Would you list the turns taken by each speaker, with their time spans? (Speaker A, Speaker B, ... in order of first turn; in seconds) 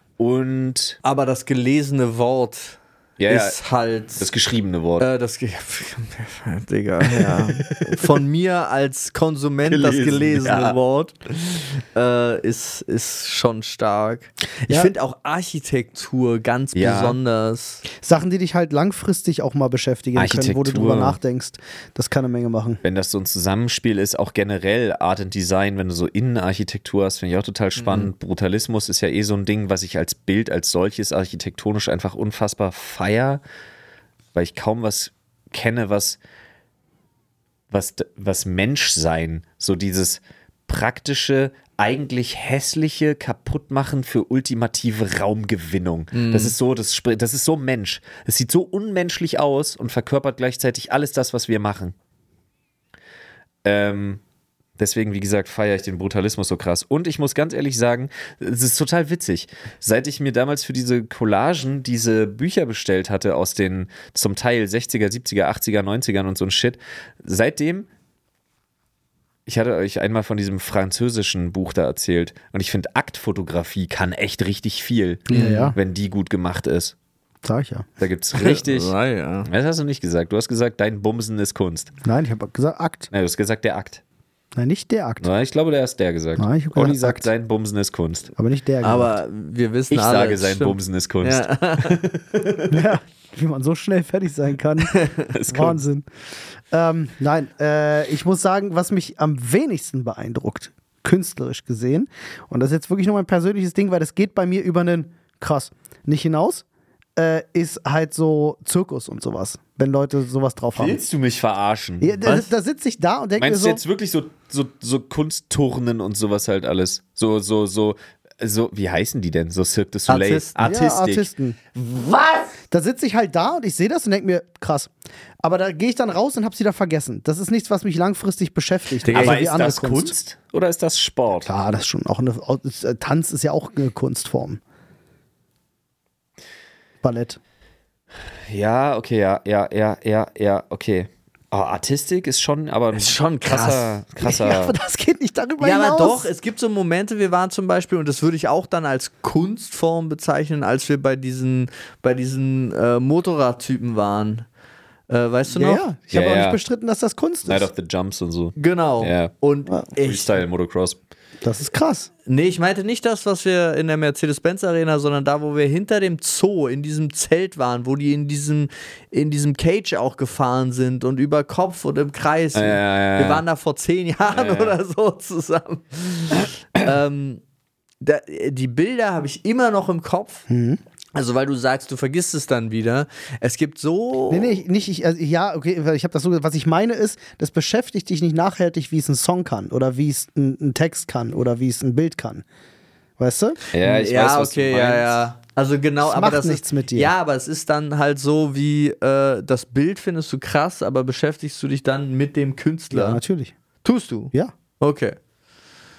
Speaker A: 0.2-1.0, 3.2-3.6, 4.2-5.1, 7.0-8.1, 9.7-10.8, 16.7-17.2, 20.1-21.2, 22.8-33.4, 34.3-36.2, 37.7-51.9, 53.6-54.2, 54.8-67.9, 69.5-76.9, 78.0-78.9, 79.5-81.9, 83.1-84.0, 85.2-88.3, 89.9-92.9, 95.3-95.8, 110.7-112.2, 113.4-122.5, 129.1-131.5, 138.5-144.8, 156.1-156.6, 157.4-159.3, 160.0-161.0, 172.5-173.4, 174.3-174.8, 193.7-195.2
Speaker B: 1.0-4.3, 5.0-17.8, 27.8-28.1, 46.1-46.5, 75.3-75.7, 78.3-79.5, 88.8-92.0, 94.8-95.3, 112.2-112.5, 120.1-120.6, 129.0-129.4, 142.9-143.9, 145.6-154.4, 155.1-155.9, 158.6-160.4, 162.2-177.4, 178.0-180.4, 181.1-184.6, 193.7-203.2, 203.8-205.2
Speaker C: 17.9-22.8, 75.3-75.8, 77.4-77.9, 82.0-83.1, 84.5-85.3, 86.4-87.3, 88.3-89.1, 92.7-96.0, 96.7-106.6, 107.2-111.0, 112.0-113.8, 120.6-121.6, 122.7-124.9, 125.4-130.1, 131.4-134.6, 137.0-137.4, 144.2-146.3, 155.5-157.7, 161.4-162.1, 180.5-180.8, 184.3-192.4, 193.2-193.6, 196.0-197.1, 202.9-203.5